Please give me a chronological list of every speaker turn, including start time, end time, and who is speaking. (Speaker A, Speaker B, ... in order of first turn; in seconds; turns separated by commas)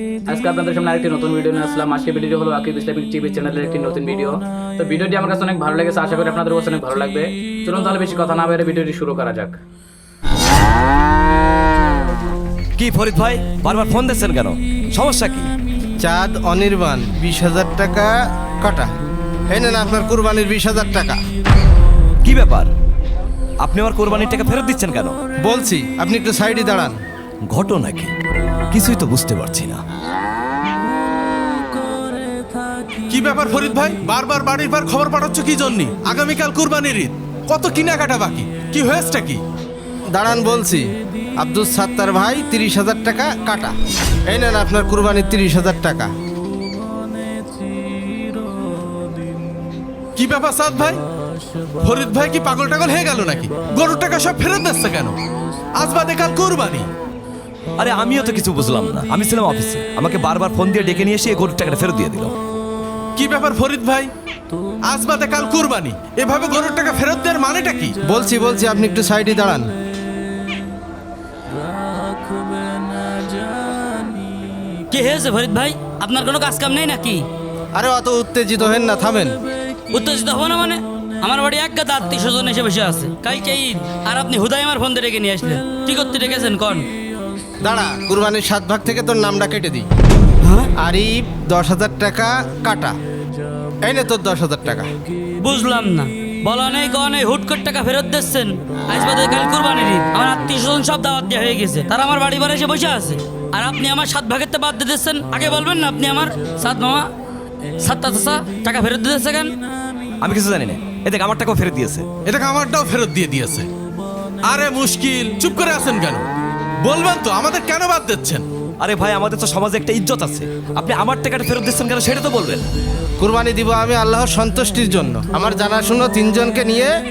Speaker A: 0.3-6.8, Speaker B: 12.8-15.5, Speaker C: 16.0-18.1, Speaker C: 18.6-18.9, Speaker C: 19.6-21.2, Speaker B: 22.2-22.7, Speaker B: 23.6-25.2, Speaker C: 25.5-26.9, Speaker B: 27.5-28.1, Speaker B: 28.7-29.8, Speaker D: 33.1-39.4, Speaker C: 40.1-40.9, Speaker C: 41.4-43.7, Speaker C: 44.3-46.1, Speaker D: 50.1-51.0, Speaker D: 51.8-55.1, Speaker D: 55.8-56.9, Speaker B: 57.8-62.3, Speaker D: 63.1-64.1, Speaker D: 64.9-67.9, Speaker C: 68.1-69.6, Speaker E: 74.9-77.2, Speaker C: 77.8-79.3, Speaker E: 79.9-86.9, Speaker C: 87.7-89.8, Speaker E: 90.4-90.7, Speaker C: 90.9-92.9, Speaker C: 93.9-94.9, Speaker E: 95.4-107.1, Speaker E: 107.8-109.5, Speaker B: 110.2-112.1, Speaker D: 112.2-113.7, Speaker D: 114.4-116.2, Speaker D: 116.8-118.4, Speaker B: 118.8-122.7, Speaker C: 123.2-126.9